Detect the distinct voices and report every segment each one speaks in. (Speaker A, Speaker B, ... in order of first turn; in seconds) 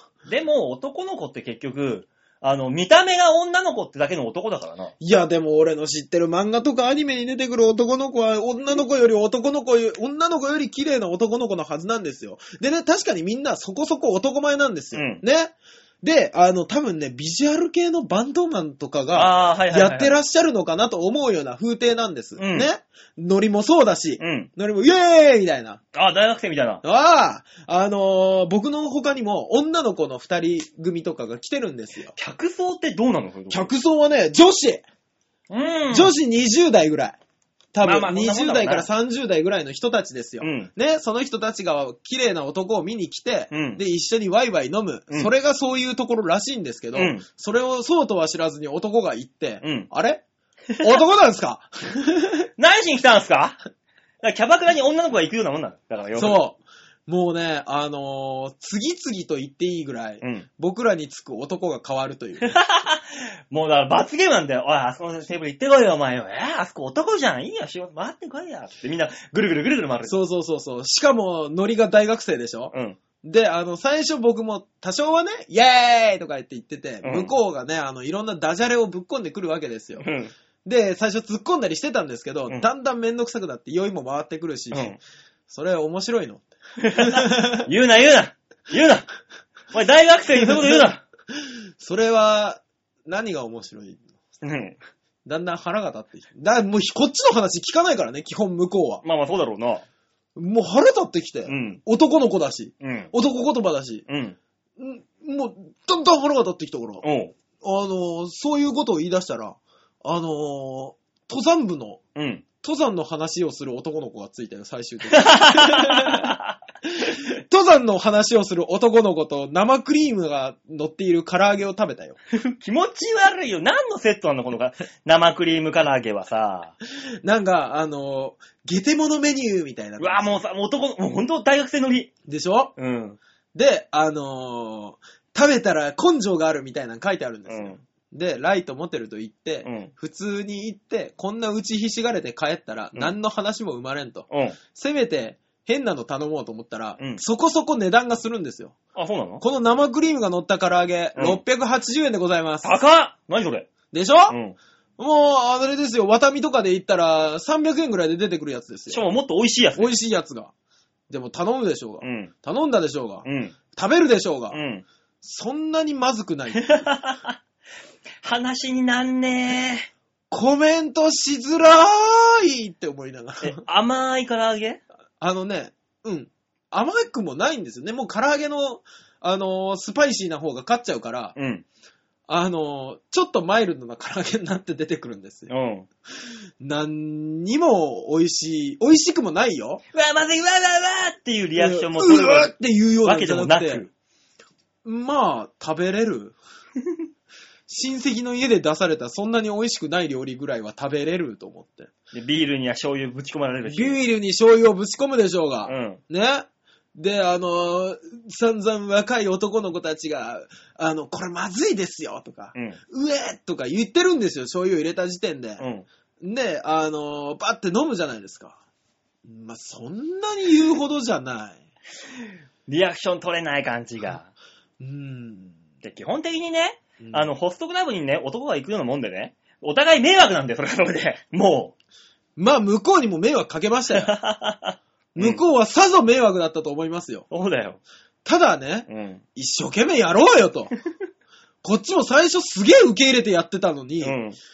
Speaker A: 0.3-4.9, 14.9-15.2, 19.1-20.1, 22.4-22.7, 24.2-24.5, 25.9-26.8, 32.1-33.7, 35.5-36.1, 37.8-38.9, 40.4-40.7, 43.5-43.8, 46.9-47.2, 49.6-49.9, 52.6-53.6, 54.2-56.4, 60.2-60.5, 62.4-70.2, 72.7-73.0, 77.0-77.3, 80.0-80.3, 84.7-85.0, 86.8-89.1, 89.7-91.0, 94.4-94.8, 99.0-99.8, 101.5-101.8, 102.8-103.1, 104.1-104.4, 107.0-107.3, 112.1-112.4, 115.1-117.2, 122.3-126.7, 130.0-132.1, 132.8-133.2, 137.5-137.8, 139.6-139.9, 144.3-144.6, 148.9-149.4, 152.6-153.7, 154.3-154.6, 158.9-159.9, 162.0-162.3, 163.2-163.6, 164.5-164.8, 166.6-167.3, 168.2-169.9, 173.4-174.8, 181.3-181.6, 185.5-185.9, 189.9-192.5, 193.0-193.9, 202.1-204.0, 205.6-206.0, 215.6-215.9, 222.7-224.3, 225.8-231.7, 233.9-235.4, 237.3-237.8, 238.9-239.2, 244.0-244.4
Speaker B: 5.0-25.8, 26.8-32.1, 33.5-34.8, 35.9-37.2, 37.7-50.2, 50.8-52.5, 56.1-62.5, 70.0-80.1, 80.6-85.0, 85.5-86.4, 87.0-87.7, 90.4-90.8, 91.3-94.1, 95.2-99.0, 100.3-104.0, 104.8-107.0, 107.6-112.0, 112.6-122.2, 127.2-130.3, 132.2-132.7, 133.5-148.8, 149.4-152.7, 153.9-154.4, 155.0-159.0, 159.7-160.5, 161.1-164.6, 165.2-166.8, 170.3-173.6, 175.2-181.3, 182.3-185.5, 186.6-189.8, 191.6-193.8, 194.8-196.4, 197.7-201.9, 203.7-215.6, 216.2-218.6, 219.2-221.6, 224.8-225.6, 227.0-227.3, 232.3-234.1, 235.1-237.2, 238.2-240.7, 241.6-244.2